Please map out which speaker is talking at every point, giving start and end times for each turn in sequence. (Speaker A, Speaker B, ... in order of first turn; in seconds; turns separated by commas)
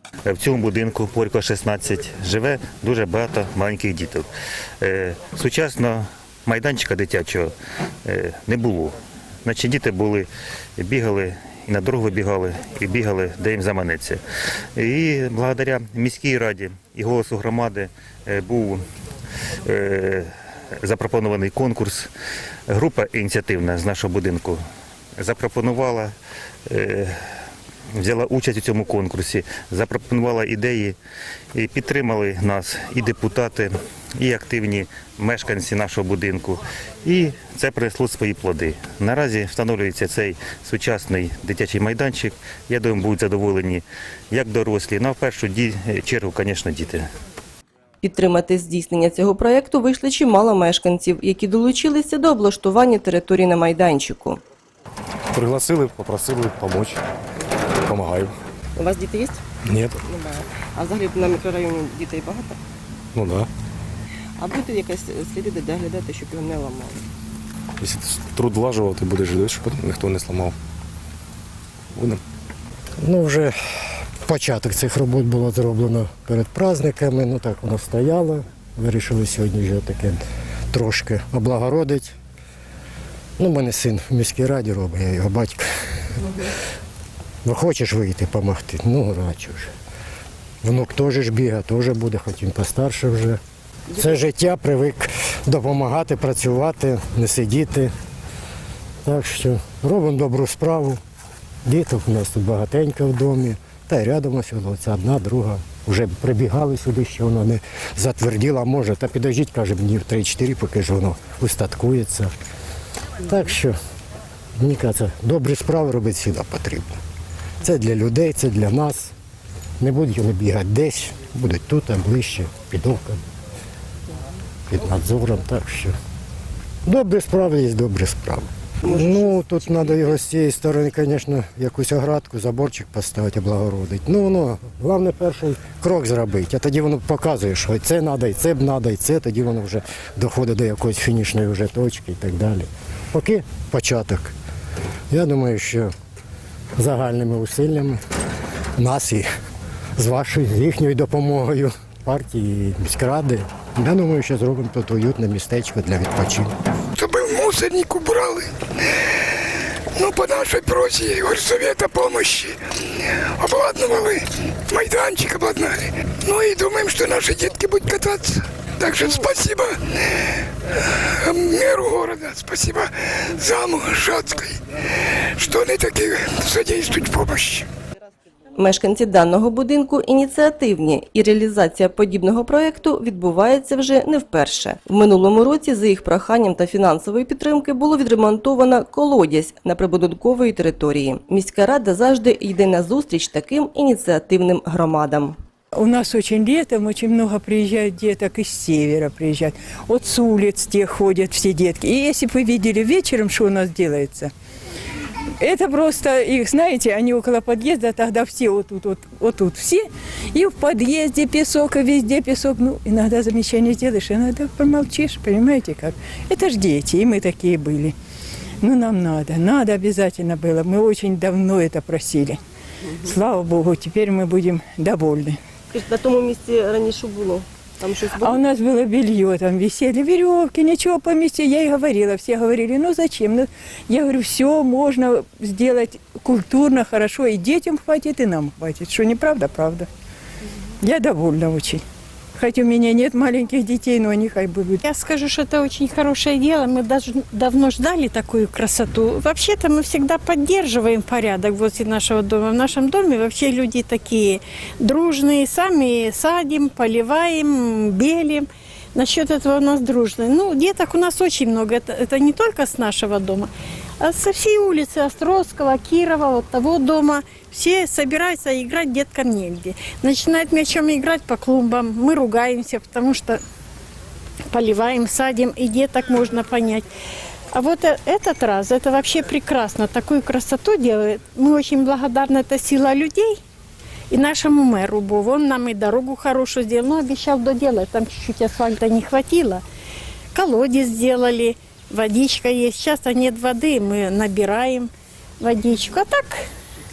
Speaker A: 0.2-4.3, Speaker A: 4.8-7.5, Speaker A: 8.0-14.2, Speaker A: 14.7-18.8, Speaker A: 19.6-20.3, Speaker A: 20.8-22.1, Speaker A: 22.7-24.6, Speaker A: 25.2-26.1, Speaker A: 26.7-27.2, Speaker A: 27.9-30.9, Speaker A: 31.5-47.1, Speaker B: 48.0-54.4, Speaker C: 55.3-57.0, Speaker C: 57.8-58.4, Speaker B: 58.8-59.4, Speaker C: 59.6-60.0, Speaker B: 60.1-62.6, Speaker C: 63.1-63.5, Speaker B: 64.4-67.0, Speaker C: 67.8-70.5, Speaker C: 71.9-72.2, Speaker D: 73.0-73.5, Speaker D: 74.2-82.1, Speaker D: 83.4-85.7, Speaker D: 87.4-89.7, Speaker D: 90.6-93.4, Speaker D: 93.9-97.9, Speaker D: 99.0-101.0, Speaker D: 101.6-112.3, Speaker D: 113.2-113.8, Speaker D: 114.6-117.0, Speaker D: 117.6-119.1, Speaker D: 119.8-123.2, Speaker D: 124.7-125.9, Speaker D: 126.8-144.3, Speaker B: 128.8-130.1, Speaker D: 145.1-145.9, Speaker D: 146.8-148.0, Speaker D: 148.8-149.2, Speaker D: 150.0-156.5, Speaker E: 156.9-158.5, Speaker E: 159.0-159.3, Speaker E: 159.9-174.6, Speaker E: 175.2-177.7, Speaker B: 178.6-195.4, Speaker F: 195.8-204.3, Speaker F: 205.4-217.9, Speaker F: 218.6-222.4, Speaker F: 223.0-225.4, Speaker B: 225.7-228.4, Speaker F: 228.2-239.9, Speaker F: 240.8-241.8, Speaker F: 242.3-244.8, Speaker G: 244.8-273.4, Speaker G: 274.5-276.9, Speaker G: 277.5-283.4, Speaker G: 284.1-289.6, Speaker G: 290.3-296.4